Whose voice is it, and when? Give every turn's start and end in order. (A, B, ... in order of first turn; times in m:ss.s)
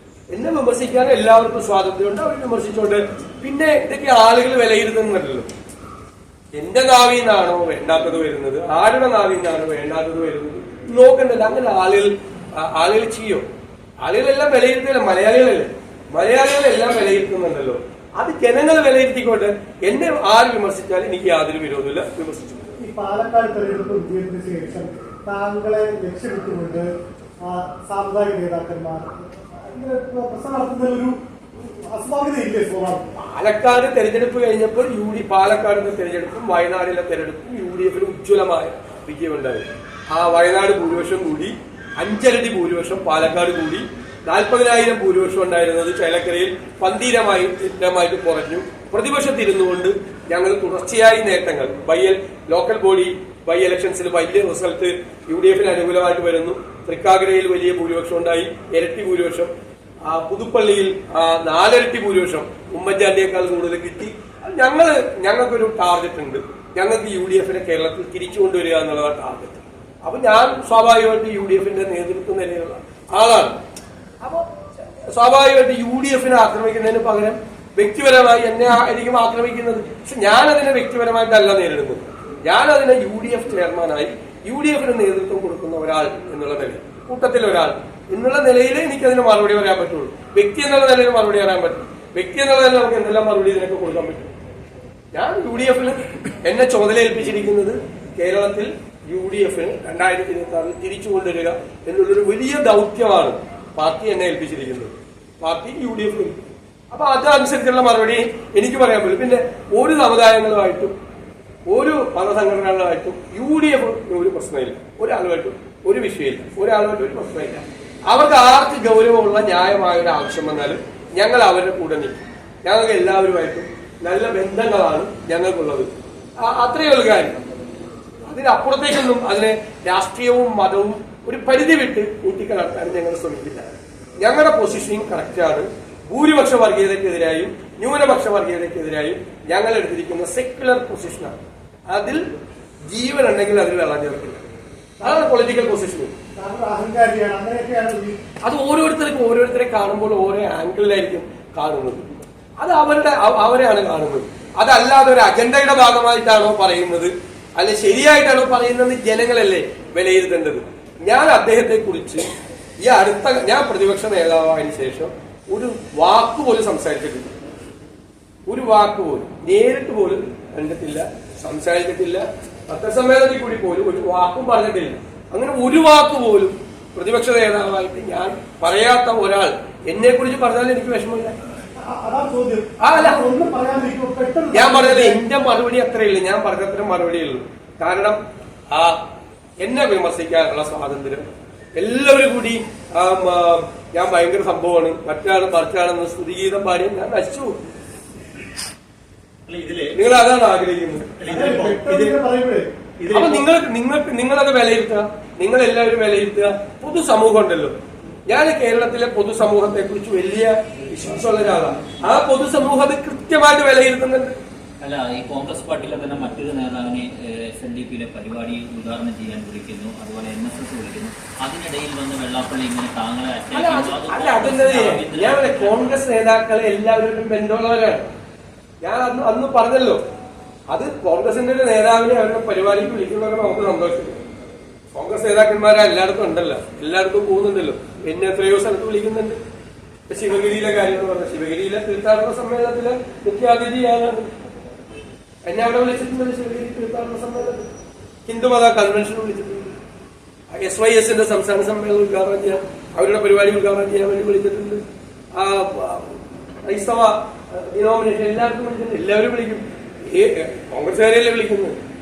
0:00.3-0:05.5 A
0:06.6-0:13.4 A
0:14.0-0:22.8 A
0:22.8-0:26.9 B
0:27.4-0:33.0 B
0:33.2-0:59.5 A
1:00.1-1:13.6 A
1:14.2-1:14.6 A
1:15.1-1:34.3 A
1:35.1-1:50.9 A
1:51.7-2:05.9 A
2:06.4-2:07.4 A
2:08.3-2:13.7 A
2:14.2-2:21.4 A
2:21.9-2:22.2 A
2:22.8-2:24.4 A
2:25.0-2:25.4 B
2:25.0-2:26.1 A
2:26.4-2:28.2 B
2:28.4-2:32.0 A
2:32.6-2:42.3 A
2:42.8-2:47.4 A
2:48.5-3:01.3 A
3:01.8-3:05.2 B
3:02.8-3:03.2 A
3:04.5-3:08.2 A
3:08.7-3:09.0 A
3:09.6-3:17.5 A
3:19.5-3:20.0 C
3:20.0-3:21.1 A
3:21.2-3:22.2 C
3:21.3-3:22.7 B
3:23.0-3:23.5 C
3:23.1-3:27.7 A
3:28.3-3:34.4 A
3:34.8-3:46.0 D
3:43.5-3:48.1 A
3:48.8-3:50.0 A
3:50.7-3:54.2 A
3:54.9-3:59.4 A
4:00.1-4:04.3 A
4:05.5-4:07.7 A
4:08.3-4:09.8 A
4:10.6-4:14.8 A
4:15.4-4:21.8 A